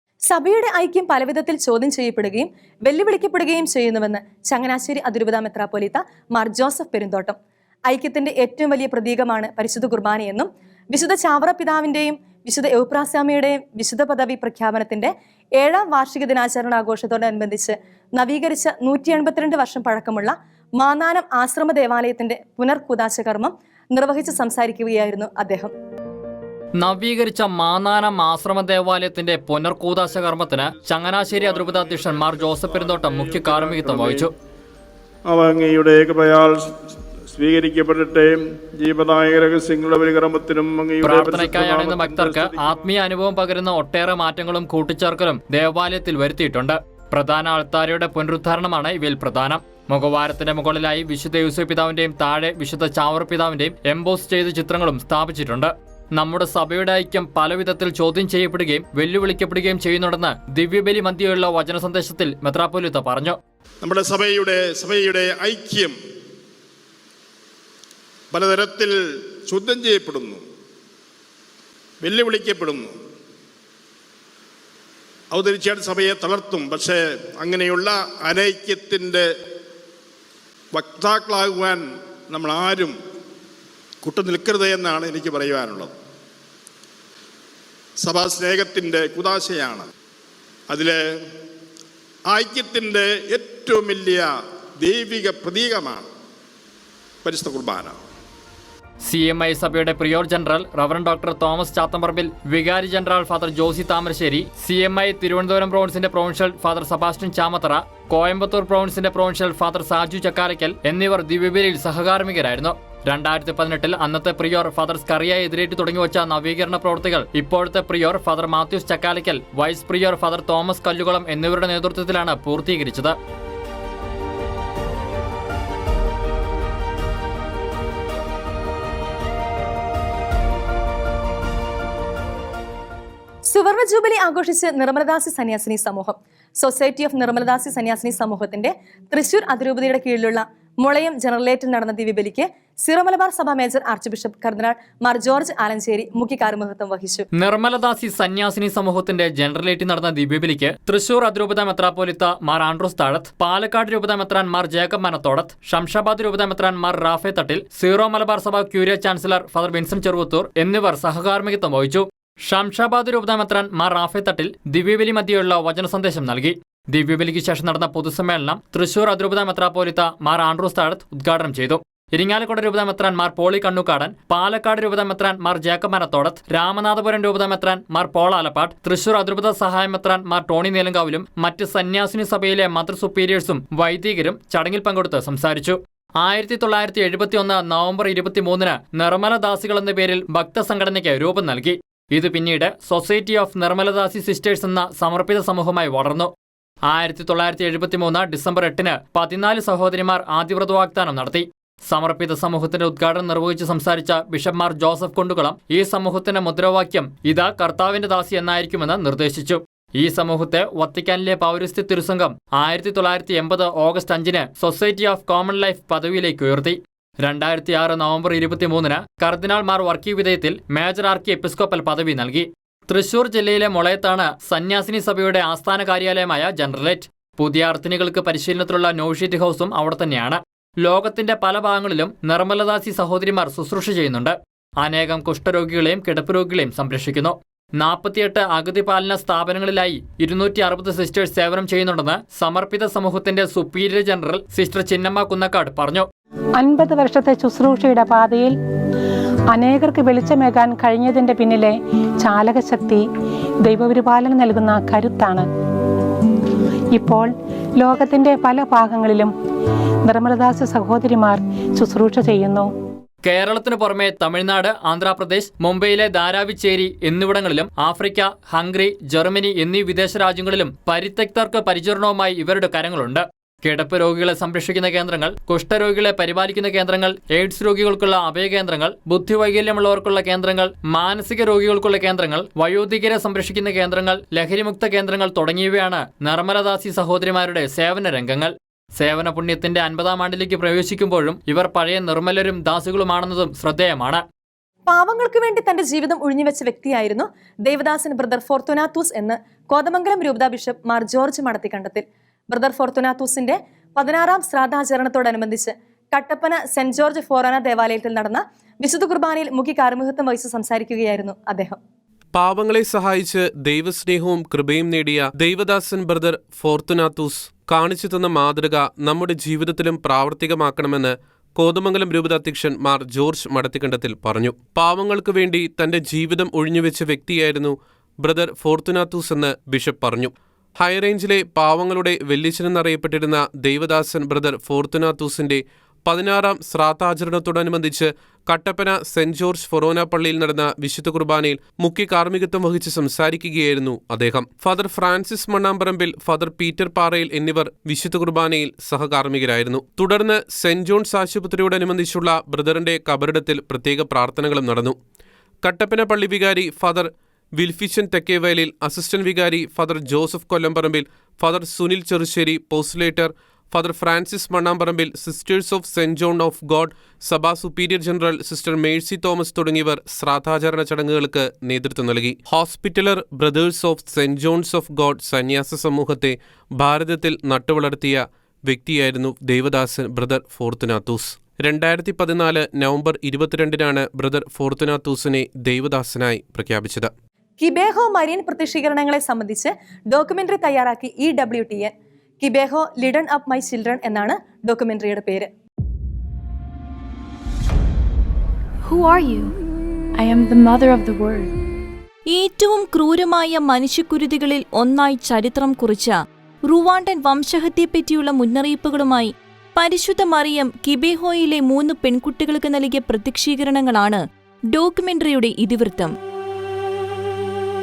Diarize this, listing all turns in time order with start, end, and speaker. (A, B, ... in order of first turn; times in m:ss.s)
0:00.3-0:07.4 A
0:07.9-0:25.7 A
0:26.8-0:34.3 B
0:31.2-0:34.3 C
0:35.3-0:36.8 C
0:37.3-0:42.8 C
0:41.0-1:03.4 B
1:03.8-1:06.0 C
1:08.3-1:10.4 C
1:12.0-1:12.9 C
1:15.3-1:19.3 C
1:20.7-1:23.0 C
1:24.0-1:25.9 C
1:28.0-1:29.9 C
1:30.7-1:31.0 C
1:32.3-1:34.3 C
1:34.8-1:36.1 C
1:37.2-1:38.0 C
1:39.0-2:03.2 B
2:13.4-2:27.3 A
2:27.3-3:16.3 B
3:16.9-4:06.1 B
4:06.6-4:08.5 D
4:09.5-4:13.0 D
4:13.6-4:15.5 D
4:16.9-4:19.3 D
4:20.1-4:22.7 D
4:23.2-4:54.2 B
4:54.9-5:11.8 A
5:12.3-5:55.0 E
5:55.6-6:27.1 E
6:27.6-6:35.5 A
6:38.8-6:39.6 F
6:40.2-6:41.5 F
6:42.3-6:46.1 G
6:46.7-6:54.2 G
6:54.7-6:56.1 G